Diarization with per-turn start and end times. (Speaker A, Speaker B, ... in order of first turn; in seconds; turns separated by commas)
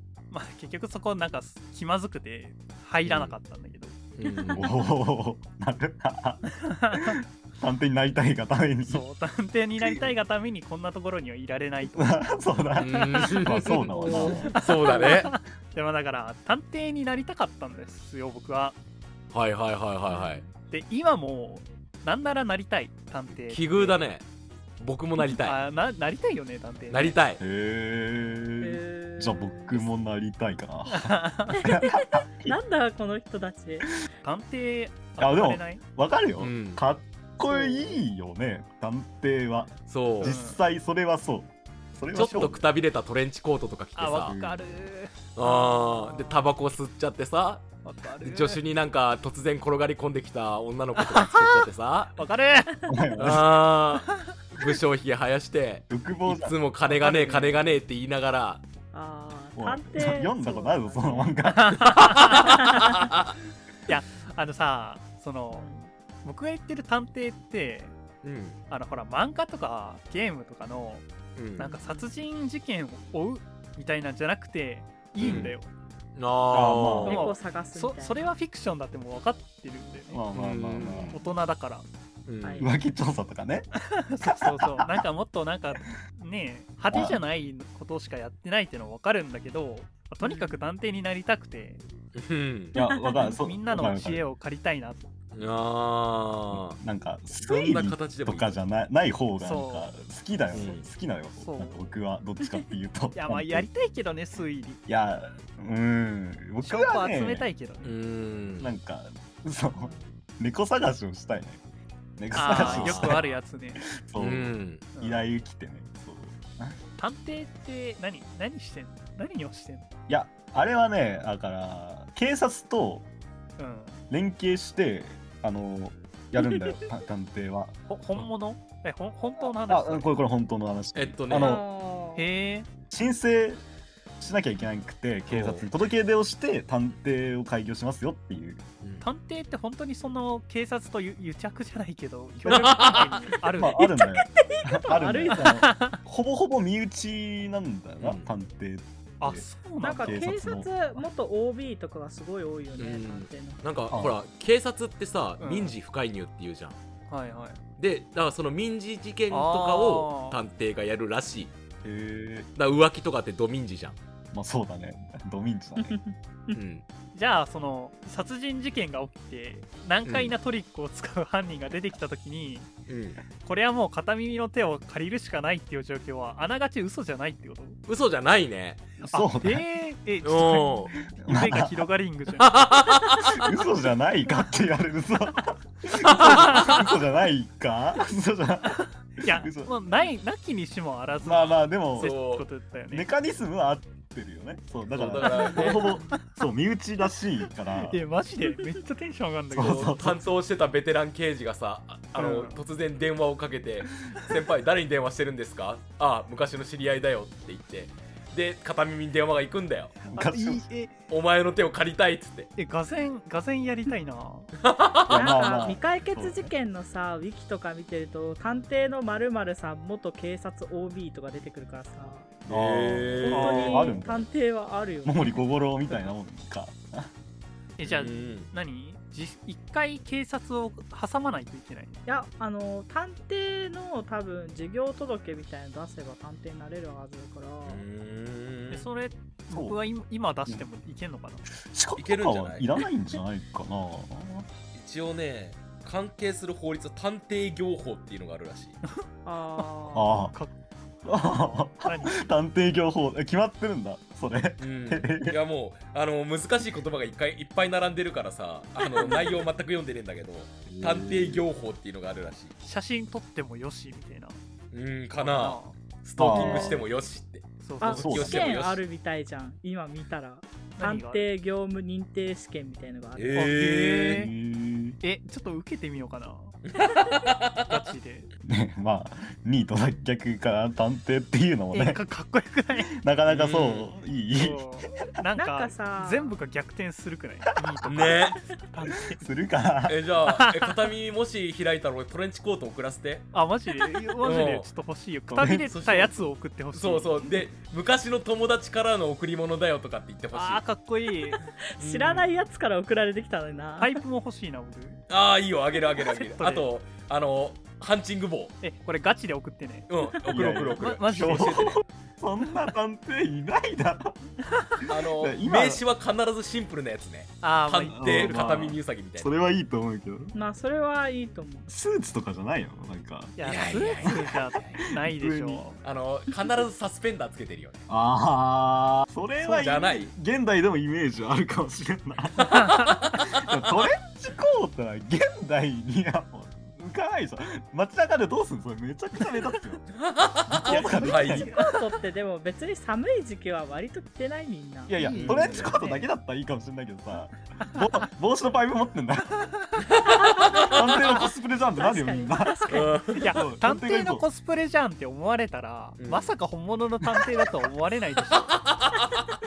Speaker A: 0.3-4.0, Speaker B: 3.0-3.4, Speaker B: 4.2-4.7, Speaker C: 4.5-9.0, Speaker A: 6.6-7.2, Speaker A: 8.8-12.2, Speaker C: 11.9-14.6, Speaker B: 12.8-15.3, Speaker A: 13.2-18.8, Speaker D: 14.1-14.4, Speaker B: 19.3-20.4, Speaker D: 20.1-20.5, Speaker A: 20.6-24.0, Speaker B: 23.4-24.2, Speaker B: 24.8-25.6, Speaker A: 25.2-27.2, Speaker B: 26.9-27.4, Speaker C: 27.4-32.6, Speaker D: 28.6-29.9, Speaker A: 30.9-31.6, Speaker D: 31.5-33.9, Speaker A: 34.2-35.8, Speaker C: 35.2-42.6, Speaker B: 36.4-36.8, Speaker D: 37.5-38.0, Speaker B: 39.9-40.4, Speaker A: 40.2-40.6, Speaker B: 42.1-44.4, Speaker A: 42.1-42.6, Speaker A: 44.0-46.5, Speaker C: 44.3-44.8, Speaker B: 45.4-47.7, Speaker A: 47.8-48.6, Speaker B: 48.2-52.1, Speaker A: 51.0-52.8, Speaker C: 52.9-53.5, Speaker B: 53.2-58.6, Speaker A: 54.1-54.8, Speaker C: 55.9-56.6, Speaker A: 56.9-57.6, Speaker D: 58.9-61.4, Speaker C: 59.6-62.1, Speaker A: 61.5-62.6, Speaker B: 61.8-63.3, Speaker D: 62.3-63.1, Speaker A: 63.9-65.7, Speaker D: 65.5-65.9, Speaker A: 66.2-68.0, Speaker B: 68.2-68.6, Speaker A: 68.7-71.1, Speaker B: 71.4-71.8, Speaker A: 71.6-75.7, Speaker B: 75.2-75.5, Speaker B: 76.2-77.2, Speaker C: 76.5-77.2, Speaker D: 77.0-78.3, Speaker A: 77.1-80.2, Speaker C: 80.1-81.2, Speaker B: 80.3-81.2, Speaker A: 81.1-81.9, Speaker B: 82.3-82.7, Speaker D: 82.4-82.7, Speaker C: 82.6-83.7, Speaker A: 83.8-91.8, Speaker C: 84.2-85.0, Speaker C: 86.9-87.2, Speaker D: 90.2-90.6, Speaker B: 92.2-92.8, Speaker C: 92.8-94.2, Speaker D: 93.0-93.3, Speaker A: 93.2-95.1, Speaker B: 95.3-96.8, Speaker C: 96.5-103.7, Speaker B: 97.4-98.5, Speaker A: 99.4-99.9, Speaker B: 100.5-100.8, Speaker A: 101.4-101.9, Speaker A: 103.1-104.8, Speaker C: 104.9-107.5, Speaker A: 106.6-108.0, Speaker B: 107.8-108.7, Speaker C: 108.6-111.6, Speaker D: 109.8-110.1, Speaker C: 112.2-113.3, Speaker A: 112.3-113.8, Speaker B: 112.5-113.3, Speaker C: 113.8-116.8, Speaker B: 114.2-114.8, Speaker A: 115.0-115.3, Speaker A: 117.0-119.9, Speaker C: 120.1-123.1, Speaker A: 123.6-124.0, Speaker C: 124.1-127.7, Speaker D: 126.4-126.8, Speaker A: 127.9-130.2, Speaker C: 129.7-131.6, Speaker B: 130.9-131.6, Speaker D: 131.3-132.2, Speaker A: 132.2-132.7, Speaker C: 132.9-133.6, Speaker C: 134.2-138.6, Speaker B: 135.3-135.7, Speaker A: 139.0-143.8, Speaker C: 142.4-149.5, Speaker B: 142.5-143.2, Speaker D: 143.8-145.7, Speaker A: 145.3-146.0, Speaker B: 148.0-148.3, Speaker A: 149.2-150.3, Speaker D: 149.8-153.6, Speaker C: 150.0-151.0, Speaker B: 152.8-156.8, Speaker C: 153.9-154.2, Speaker A: 155.4-155.8, Speaker A: 157.1-157.6, Speaker B: 157.8-161.5, Speaker A: 159.3-160.4, Speaker C: 161.8-162.5, Speaker B: 162.6-164.0, Speaker C: 164.3-166.0, Speaker D: 165.8-166.6, Speaker B: 166.5-166.8, Speaker A: 167.1-172.7, Speaker B: 170.1-170.3, Speaker B: 172.9-173.2, Speaker A: 173.4-177.8, Speaker B: 177.9-178.8, Speaker C: 179.0-179.6, Speaker A: 179.0-182.5, Speaker B: 180.2-180.9, Speaker C: 181.2-181.9, Speaker B: 182.4-183.5, Speaker C: 183.3-189.7, Speaker B: 186.0-186.8, Speaker A: 186.2-186.7, Speaker A: 189.2-193.1, Speaker C: 191.2-192.2, Speaker B: 192.0-192.5, Speaker C: 192.9-198.0, Speaker B: 194.9-195.9, Speaker A: 195.3-196.2, Speaker A: 197.8-200.0, Speaker C: 199.5-200.2, Speaker B: 199.6-210.0, Speaker A: 202.2-202.6, Speaker C: 210.1-210.7, Speaker A: 210.1-210.9, Speaker B: 211.1-212.5, Speaker A: 212.6-214.5, Speaker B: 214.6-215.5, Speaker C: 215.1-216.5, Speaker D: 215.1-222.3, Speaker C: 222.5-224.3, Speaker B: 222.5-223.7, Speaker D: 223.2-225.4, Speaker A: 223.3-223.9, Speaker C: 225.1-227.1, Speaker A: 227.8-232.0, Speaker B: 227.8-228.5, Speaker D: 232.1-237.8, Speaker B: 237.7-238.9, Speaker A: 238.7-241.5, Speaker C: 239.5-239.8, Speaker C: 241.6-244.5, Speaker B: 242.0-242.7, Speaker B: 244.8-248.8, Speaker D: 249.2-250.1, Speaker A: 249.6-250.5, Speaker C: 249.9-250.3, Speaker C: 251.1-255.4, Speaker A: 251.1-252.3, Speaker B: 254.6-262.6, Speaker D: 259.0-259.3, Speaker C: 260.7-261.4, Speaker A: 262.6-264.4, Speaker B: 264.7-268.8, Speaker A: 265.2-265.8, Speaker C: 266.2-266.8, Speaker D: 266.3-266.8, Speaker A: 267.6-268.1, Speaker D: 267.8-273.5, Speaker C: 267.9-268.6, Speaker A: 270.8-271.3, Speaker B: 273.1-274.2, Speaker A: 273.4-274.3, Speaker C: 274.0-275.0, Speaker A: 275.0-276.6, Speaker B: 276.7-277.8, Speaker A: 277.6-278.3, Speaker C: 278.4-282.0, Speaker A: 281.7-283.0, Speaker C: 282.9-284.8, Speaker B: 283.3-283.9, Speaker A: 284.3-289.2, Speaker D: 285.4-286.4, Speaker B: 287.9-288.4, Speaker C: 289.1-290.0, Speaker B: 289.9-293.3, Speaker A: 290.3-290.8, Speaker A: 293.3-297.3, Speaker B: 294.2-294.7, Speaker C: 295.3-295.8, Speaker B: 295.7-296.1, Speaker B: 296.7-300.6, Speaker A: 300.3-301.4, Speaker D: 301.3-304.0, Speaker B: 301.8-302.3, Speaker A: 303.8-305.0, Speaker B: 305.1-308.5, Speaker A: 305.9-306.7, Speaker A: 308.6-309.9, Speaker B: 309.9-311.8, Speaker C: 310.3-314.2, Speaker A: 310.8-311.8, Speaker A: 314.5-314.8, Speaker C: 314.8-315.8, Speaker B: 314.9-319.3, Speaker A: 317.4-318.7, Speaker C: 317.9-320.3, Speaker D: 320.4-321.7, Speaker C: 321.7-325.6, Speaker A: 323.4-325.8, Speaker B: 323.4-324.7, Speaker B: 325.8-327.8, Speaker C: 327.9-339.9, Speaker B: 329.4-330.1, Speaker B: 332.4-333.4, Speaker A: 332.5-332.9, Speaker B: 339.9-341.5, Speaker C: 340.5-341.6, Speaker D: 340.7-346.1, Speaker A: 340.7-341.7, Speaker C: 344.9-349.4, Speaker A: 345.0-346.0, Speaker B: 345.2-345.6, Speaker B: 349.9-350.8, Speaker D: 350.2-353.2, Speaker C: 350.6-354.2, Speaker B: 352.7-353.4, Speaker A: 353.1-358.5, Speaker B: 356.0-356.3, Speaker B: 358.3-359.2